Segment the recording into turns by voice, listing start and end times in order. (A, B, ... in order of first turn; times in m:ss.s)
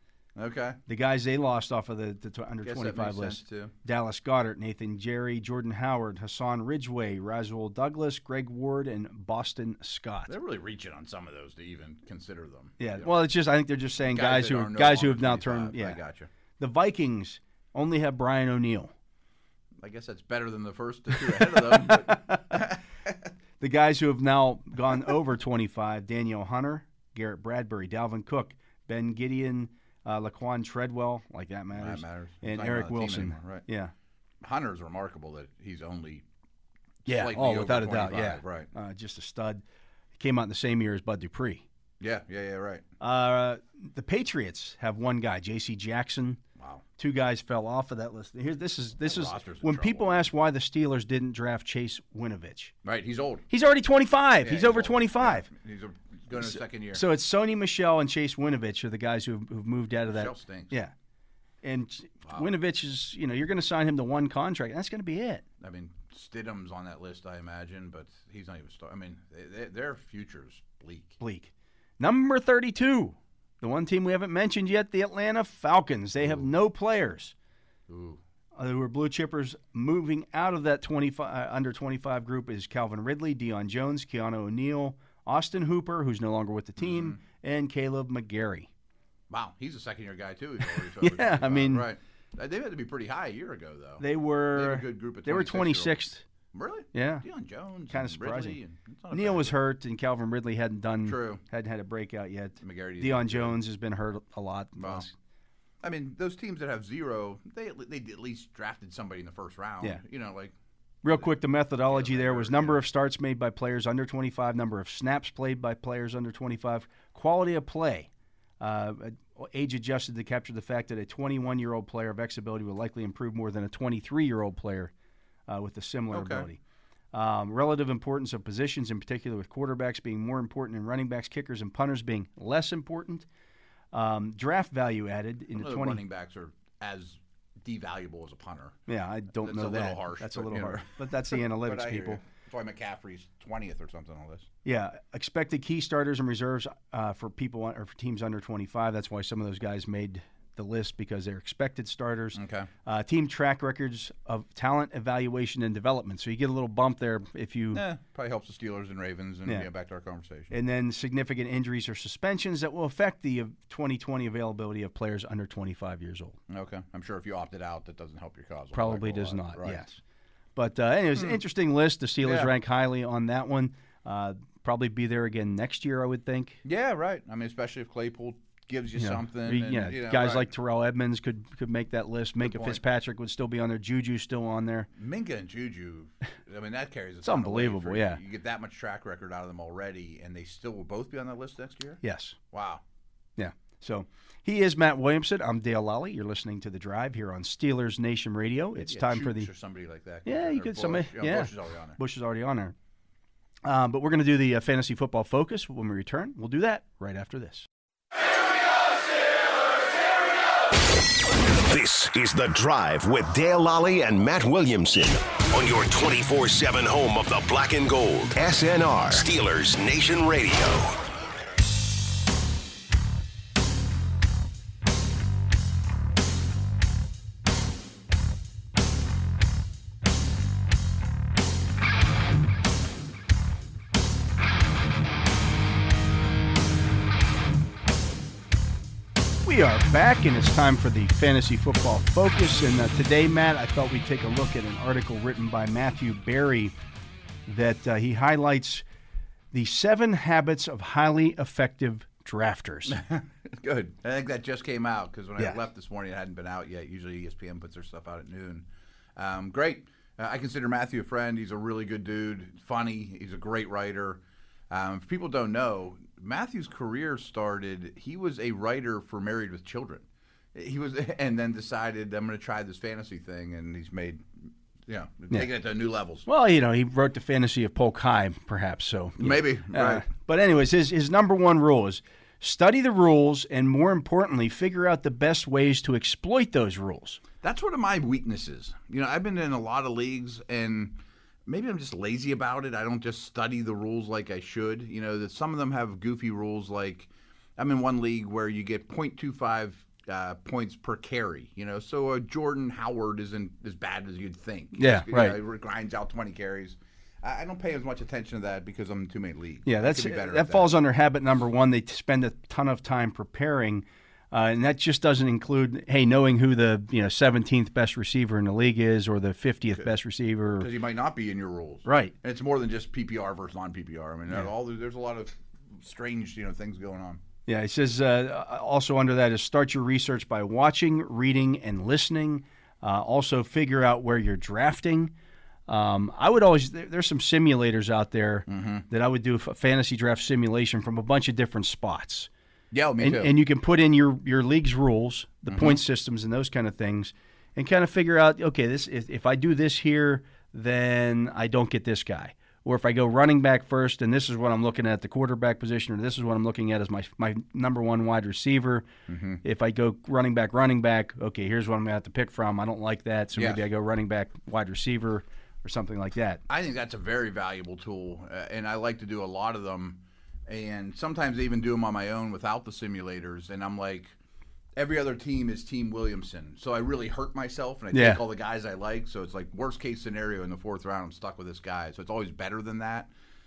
0:00.3-0:00.8 A
0:00.9-0:10.3 B
0:02.6-0:03.7 A
0:10.3-0:13.1 A
0:12.8-0:16.0 B
0:14.0-0:16.3 A
0:16.6-0:18.9 B
0:19.8-0:23.3 A
0:21.2-0:22.6 B
0:23.6-0:33.9 B
0:31.7-0:33.6 A
0:34.4-0:36.2 A
0:37.0-0:38.7 A
0:37.1-0:39.6 B
0:40.2-0:41.6 B
0:42.0-0:42.8 A
0:43.0-0:46.4 B
0:46.6-0:46.8 A
0:47.0-0:52.7 B
0:49.0-0:50.3 A
0:52.8-0:53.4 A
0:53.5-0:55.5 B
0:54.4-0:57.0 A
0:56.3-1:00.9 B
1:00.1-1:00.7 A
1:01.6-1:05.4 B
1:05.6-1:11.2 A
1:11.2-1:17.3 B
1:16.2-1:16.5 A
1:17.9-1:18.2 A
1:18.6-1:28.7 B
1:26.8-1:27.2 A
1:29.3-1:39.6 A
1:31.0-1:31.9 B
1:34.0-1:36.2 B
1:36.9-1:37.2 B
1:37.9-1:38.6 B
1:39.1-1:45.1 B
1:41.0-1:41.4 A
1:42.6-1:43.6 A
1:44.8-1:45.1 A
1:45.8-1:50.5 A
1:51.0-1:58.1 B
1:51.0-1:51.3 A
1:51.8-1:52.8 A
1:58.6-2:04.9 B
2:05.5-2:06.6 B
2:06.1-2:06.5 A
2:07.1-2:13.2 B
2:13.9-2:16.0 B
2:15.5-2:18.8 A
2:18.9-2:22.2 B
2:19.4-2:24.5 A
2:24.6-2:37.8 B
2:32.3-2:32.7 A
2:37.7-2:40.5 A
2:40.5-2:46.4 B
2:46.5-2:49.8 A
2:48.7-2:50.0 B
2:50.6-2:56.6 B
2:52.2-2:52.5 A
2:56.6-3:00.5 A
2:59.0-3:04.9 B
3:02.4-3:02.8 A
3:04.9-3:12.8 A
3:07.2-3:08.2 B
3:12.0-3:12.4 B
3:13.4-3:19.5 B
3:18.8-3:22.0 A
3:20.2-3:22.7 B
3:23.6-3:27.7 B
3:31.6-3:41.0 C
3:59.4-4:06.7 B
4:07.5-4:08.8 B
4:09.5-4:13.0 B
4:12.9-4:36.3 A
4:36.2-4:47.2 B
4:39.2-4:40.0 A
4:47.4-5:10.7 A
5:04.7-5:05.4 B
5:09.6-5:20.7 B
5:20.6-5:27.2 A
5:21.8-5:22.1 B
5:27.5-5:35.1 B
5:35.7-5:42.3 B
5:38.5-5:38.8 A
5:42.7-5:43.4 A
5:43.0-5:58.9 B
5:45.5-5:45.8 A
5:59.1-5:59.4 A
5:59.4-6:06.4 B
6:03.3-6:03.6 A
6:06.5-6:14.1 A
6:14.8-6:23.1 A
6:17.9-6:18.2 B